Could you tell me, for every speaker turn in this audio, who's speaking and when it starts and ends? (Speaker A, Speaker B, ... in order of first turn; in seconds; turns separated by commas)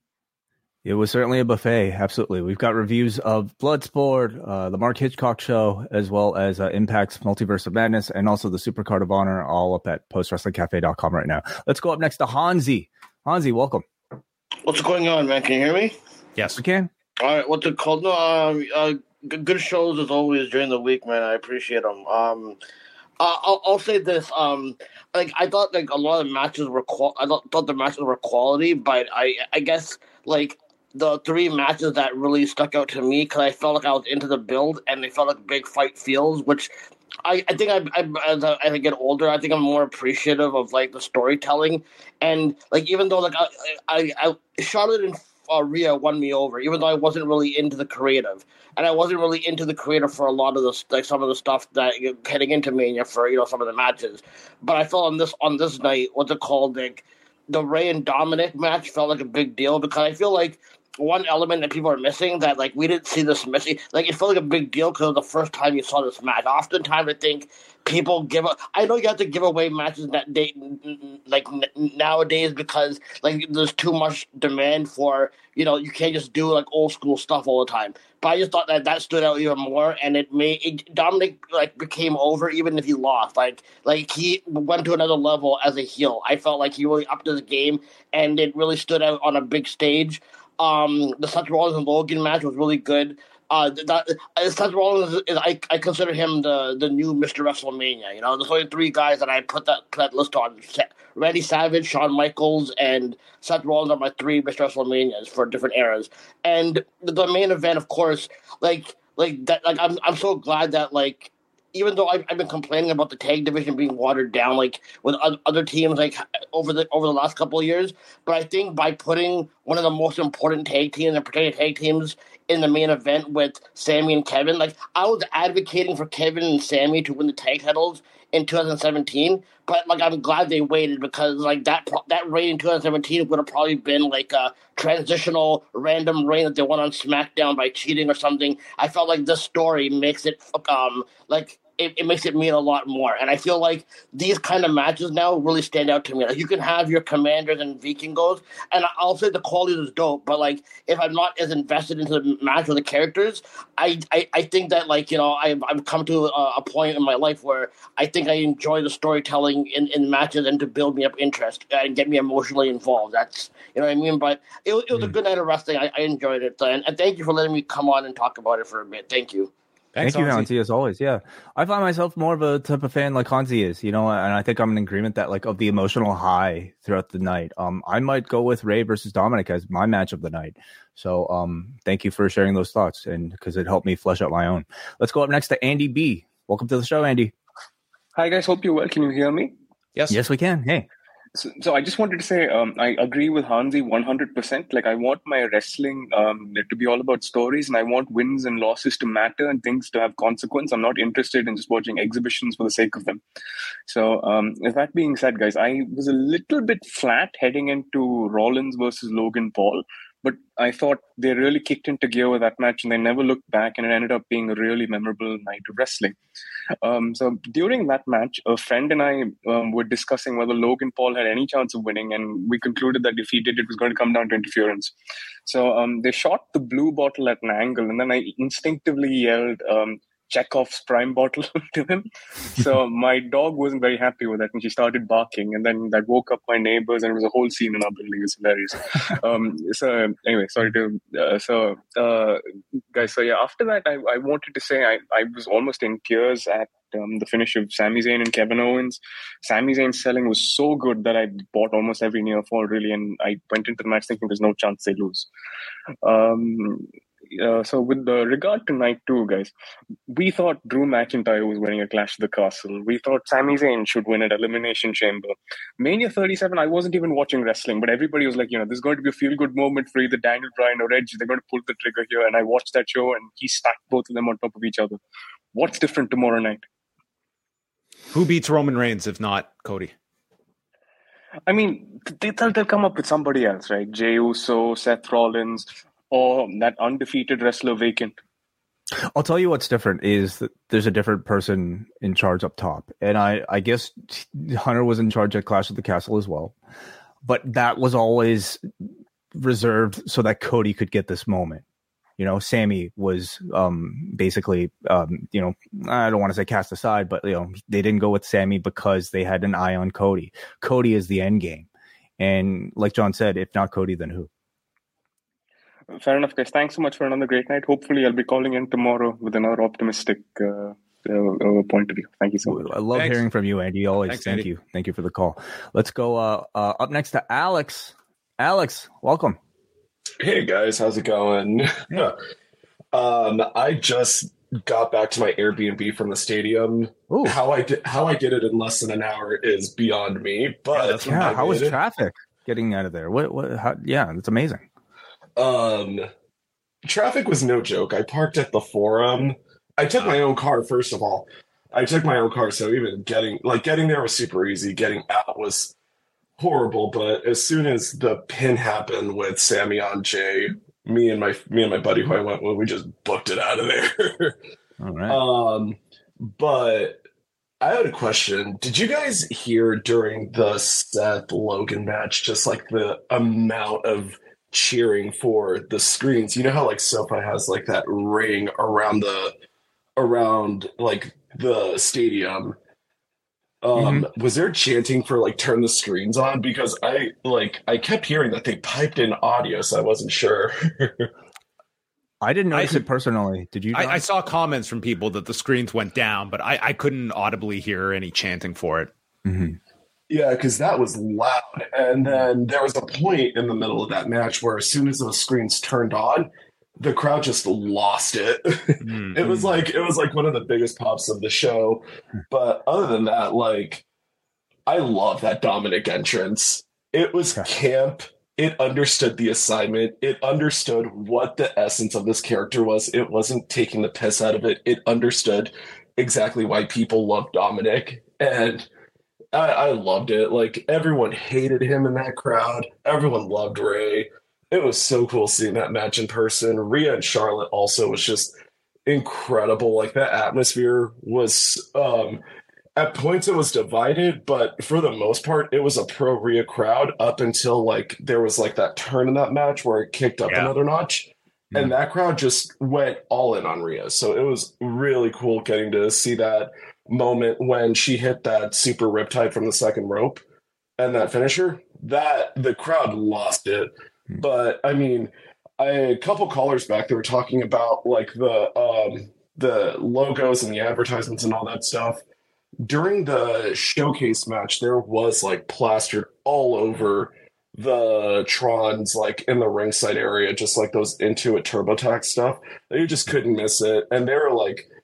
Speaker A: 0.8-13.8, Speaker B: 14.6-15.9, Speaker A: 16.6-16.9, Speaker B: 17.2-22.6, Speaker B: 23.2-36.7, Speaker B: 37.2-169.5, Speaker C: 169.9-170.5, Speaker A: 170.0-187.3, Speaker D: 188.2-189.5, Speaker A: 190.1-190.9, Speaker D: 191.4-203.2, Speaker D: 203.9-216.2, Speaker D: 216.8-224.9, Speaker D: 225.5-232.1, Speaker D: 232.6-242.4, Speaker D: 242.9-255.3, Speaker D: 256.0-259.5, Speaker D: 260.1-275.0, Speaker D: 275.5-276.6, Speaker C: 278.1-279.9, Speaker D: 281.5-288.2, Speaker A: 289.1-296.5, Speaker A: 297.2-298.6, Speaker A: 299.3-301.6, Speaker A: 302.2-311.7, Speaker A: 312.2-314.3, Speaker D: 316.0-322.7, Speaker A: 322.4-329.4, Speaker C: 322.9-323.2, Speaker C: 324.1-324.5, Speaker E: 330.2-332.1, Speaker E: 332.9-341.8, Speaker A: 337.1-337.4, Speaker C: 340.7-341.5, Speaker A: 341.1-344.6, Speaker E: 345.4-346.1, Speaker E: 346.8-355.7, Speaker E: 356.4-364.4, Speaker A: 364.8-365.2, Speaker E: 365.1-367.0, Speaker E: 367.6-379.3, Speaker E: 380.0-382.6, Speaker E: 383.6-391.1, Speaker A: 383.8-384.1, Speaker A: 392.2-394.0, Speaker C: 392.5-392.8, Speaker C: 393.7-398.9, Speaker A: 399.2-399.6, Speaker E: 400.1-413.8, Speaker C: 408.8-409.2, Speaker A: 409.2-409.6, Speaker E: 414.7-428.7, Speaker E: 429.3-438.3, Speaker E: 438.9-442.2, Speaker E: 442.8-460.2, Speaker E: 460.8-472.0, Speaker E: 472.6-484.7